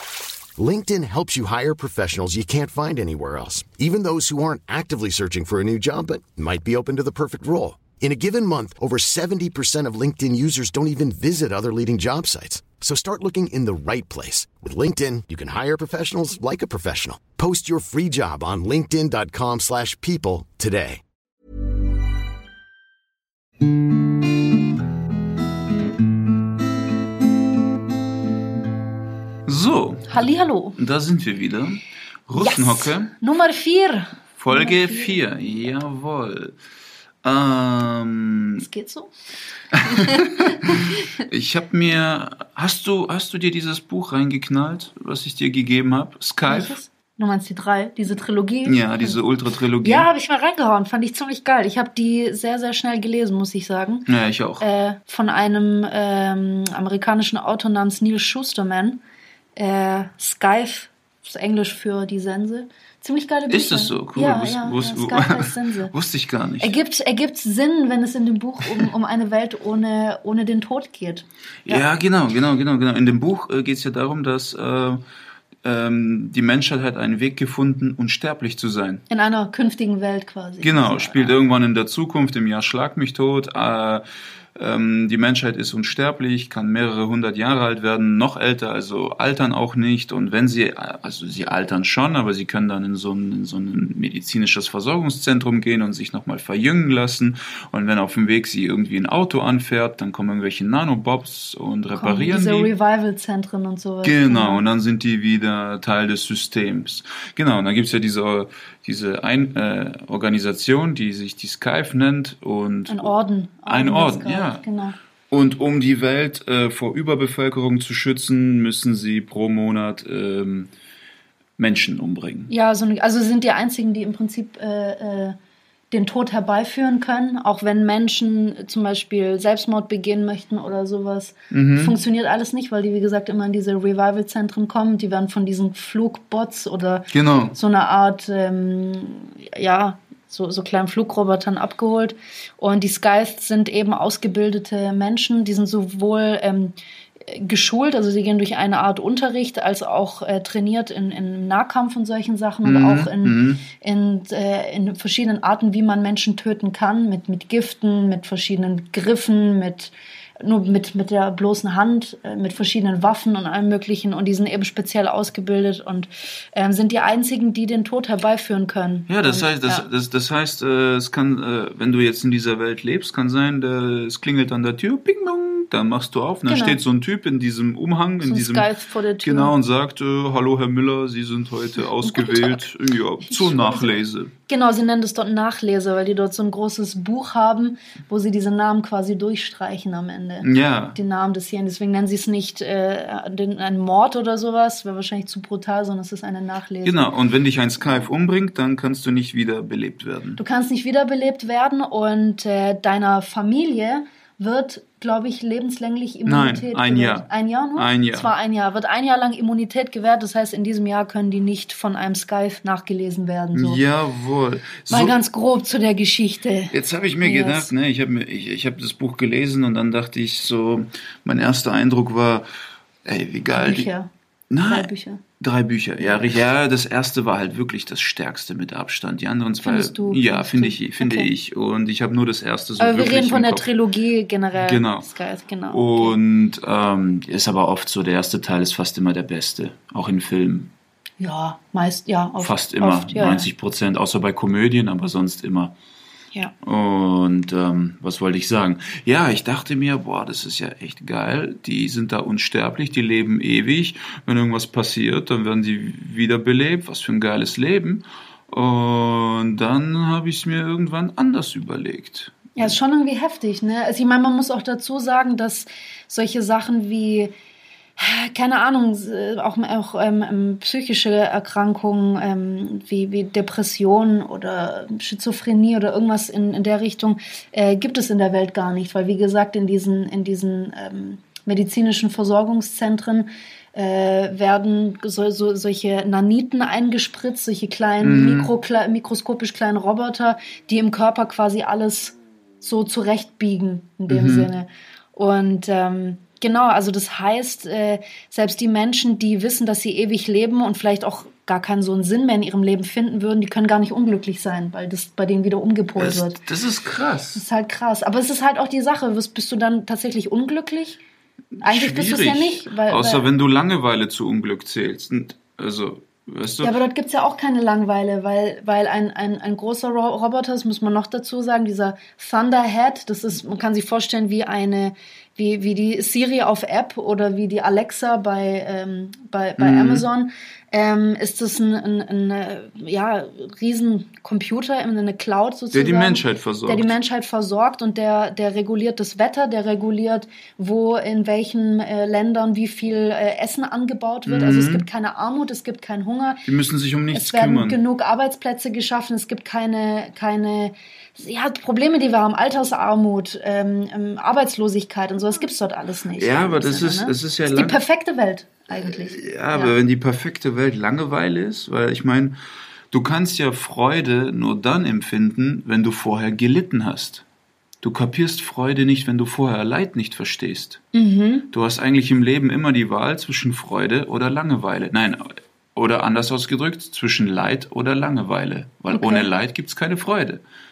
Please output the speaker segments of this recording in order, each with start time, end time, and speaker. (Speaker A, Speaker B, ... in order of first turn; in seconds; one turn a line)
Speaker A: 0.6-21.0
Speaker B: 29.4-30.2
Speaker C: 30.1-30.8
Speaker B: 30.8-33.1
Speaker C: 32.4-35.2
Speaker B: 34.4-36.5
Speaker B: 37.2-38.6
Speaker C: 38.6-39.1
Speaker C: 39.7-41.0
Speaker B: 39.8-46.8
Speaker C: 46.4-49.2
Speaker B: 48.6-50.1
Speaker C: 49.8-54.0
Speaker B: 54.1-54.6
Speaker C: 54.6-59.0
Speaker C: 59.5-65.9
Speaker B: 63.5-66.7
Speaker C: 66.6-71.8
Speaker B: 71.7-75.0
Speaker B: 75.6-79.0
Speaker C: 79.1-81.3
Speaker B: 80.6-84.0
Speaker B: 84.5-102.7
Speaker C: 101.9-104.6
Speaker B: 104.0-113.1
Speaker C: 112.9-115.0
Speaker B: 113.7-114.6
Speaker B: 115.3-120.7
Speaker B: 121.6-122.5
Speaker C: 122.5-125.3
Speaker C: 125.9-169.8
Speaker B: 131.5-131.9
Speaker B: 137.1-137.5
Speaker B: 152.6-153.6
Speaker B: 169.1-178.7
Speaker C: 176.5-176.8
Speaker C: 178.2-179.5
Speaker B: 179.2-184.3
Speaker C: 182.0-182.6
Speaker C: 183.2-197.1
Speaker B: 190.4-191.0
Speaker B: 196.8-200.4
Speaker C: 200.4-213.8
Speaker B: 206.2-208.3
Speaker B: 213.5-215.1
Speaker C: 214.9-217.7
Speaker B: 216.7-222.5
Speaker B: 223.0-223.9
Speaker C: 223.5-224.1
Speaker B: 224.5-233.7
Speaker C: 224.7-225.2
Speaker C: 226.0-226.3
Speaker C: 229.6-231.3
Speaker C: 232.8-236.2
Speaker B: 234.5-235.1
Speaker B: 235.7-240.7
Speaker C: 241.2-243.5
Speaker B: 242.4-245.7
Speaker B: 246.6-262.7
Speaker C: 262.6-267.3
Speaker C: 268.0-306.4
Speaker B: 288.0-288.5
Speaker B: 294.1-294.5
Speaker B: 306.0-307.4
Speaker C: 307.3-311.0
Speaker B: 311.6-316.7
Speaker C: 311.6-313.2
Speaker C: 316.6-346.4
Speaker B: 329.6-330.0
Speaker B: 335.7-336.9
Speaker B: 344.2-344.9
Speaker B: 346.4-347.8
Speaker C: 347.1-359.7
Speaker B: 356.2-357.8
Speaker B: 358.7-362.4
Speaker B: 362.9-367.2
Speaker B: 367.8-370.8
Speaker C: 370.9-371.5
Speaker B: 371.5-380.4
Speaker C: 378.9-379.3